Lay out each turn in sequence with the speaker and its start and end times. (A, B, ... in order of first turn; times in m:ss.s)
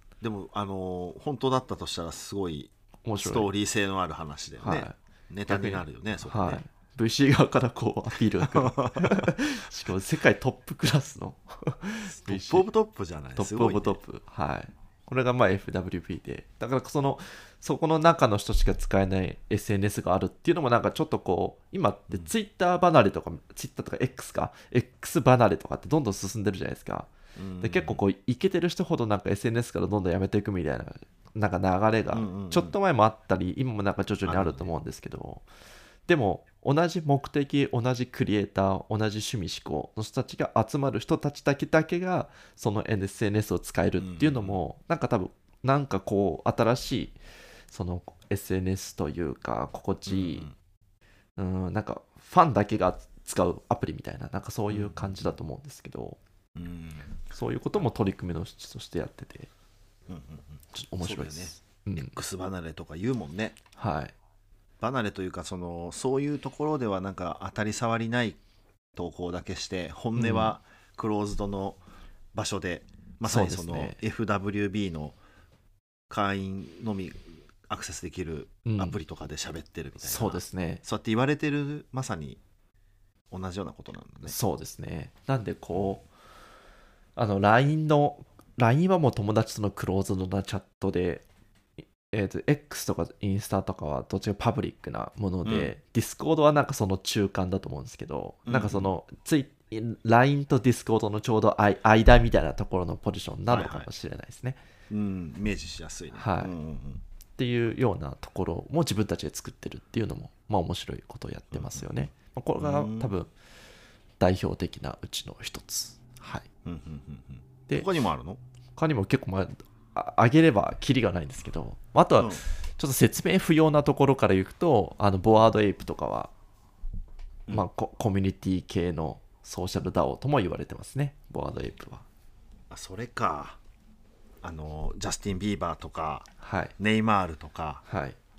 0:00.2-0:06.6 A
0:03.0-0:03.5 B
0:04.6-0:05.0 B
0:05.5-0:12.7 B
0:08.4-0:09.3 A
0:12.0-0:14.0 A
0:13.4-0:27.1 B
0:27.4-0:28.0 A
0:27.6-0:35.5 B
0:32.1-0:32.8 A
0:34.2-0:34.7 A
0:36.1-0:47.2 B
0:44.0-0:44.6 A
0:47.7-0:50.5 B
0:50.1-0:50.5 A
0:51.4-0:56.2 B
0:54.7-0:55.1 A
0:56.5-0:57.2 A
0:57.3-0:59.5 B
1:00.1-1:03.6 A
1:00.7-1:02.2 B
1:03.8-1:04.1 B
1:04.8-1:08.4 A
1:09.0-1:11.8 A
1:10.1-1:10.5 B
1:12.3-1:15.2 A
1:13.2-1:14.0 B
1:16.1-1:22.4 A
1:18.6-1:19.0 B
1:20.0-1:20.8 B
1:23.3-1:24.4 A
1:24.2-1:26.1 B
1:25.7-1:26.0 A
1:27.2-1:31.2 B
1:32.1-1:44.6 B
1:35.4-1:35.7 A
1:38.5-1:38.9 A
1:43.5-1:43.9 A
1:44.9-1:47.0 A
1:46.1-1:46.5 B
1:47.4-1:53.3 B
1:51.5-1:53.1 A
1:54.2-1:56.5 B
1:56.6-1:58.4 A
1:58.8-2:06.3 B
2:02.2-2:02.4 A
2:07.5-2:12.1 B
2:12.7-2:13.6 A
2:14.4-2:17.8 A
2:16.4-2:16.7 B
2:17.9-2:18.2 B